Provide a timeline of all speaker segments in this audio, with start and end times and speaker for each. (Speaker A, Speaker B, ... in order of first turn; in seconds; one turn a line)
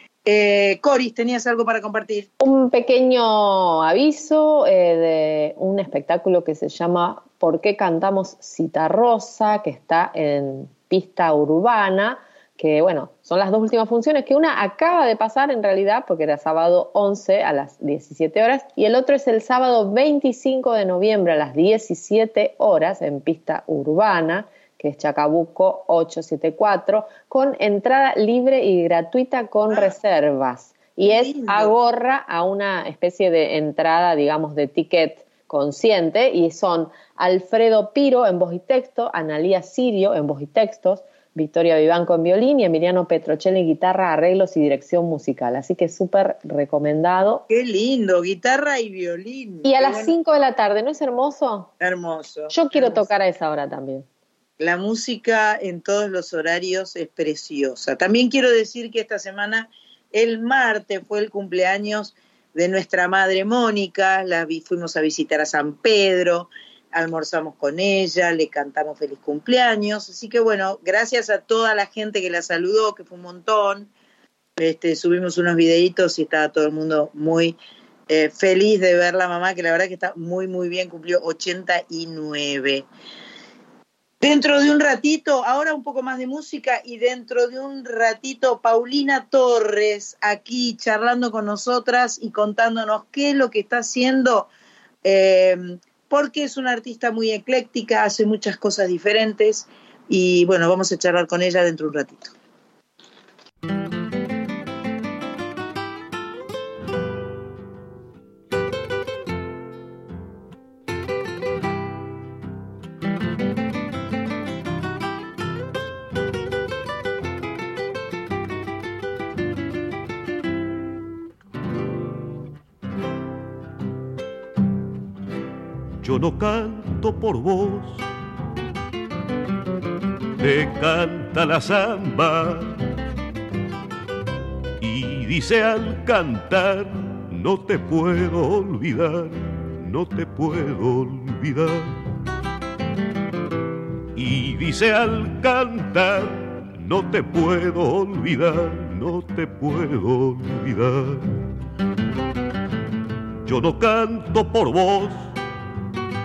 Speaker A: 0.3-2.3
Speaker B: 2.4-47.4
Speaker A: 31.0-31.7
Speaker A: 47.5-50.1
Speaker B: 49.6-51.7
Speaker A: 51.8-53.1
Speaker B: 52.5-54.1
Speaker A: 54.6-73.9
Speaker A: 74.6-77.6
Speaker A: 78.1-82.9
Speaker A: 84.2-94.5
Speaker A: 95.0-102.3
Speaker C: 126.0-128.1
Speaker C: 130.4-132.7
Speaker C: 134.8-141.9
Speaker C: 144.2-151.2
Speaker C: 153.4-155.3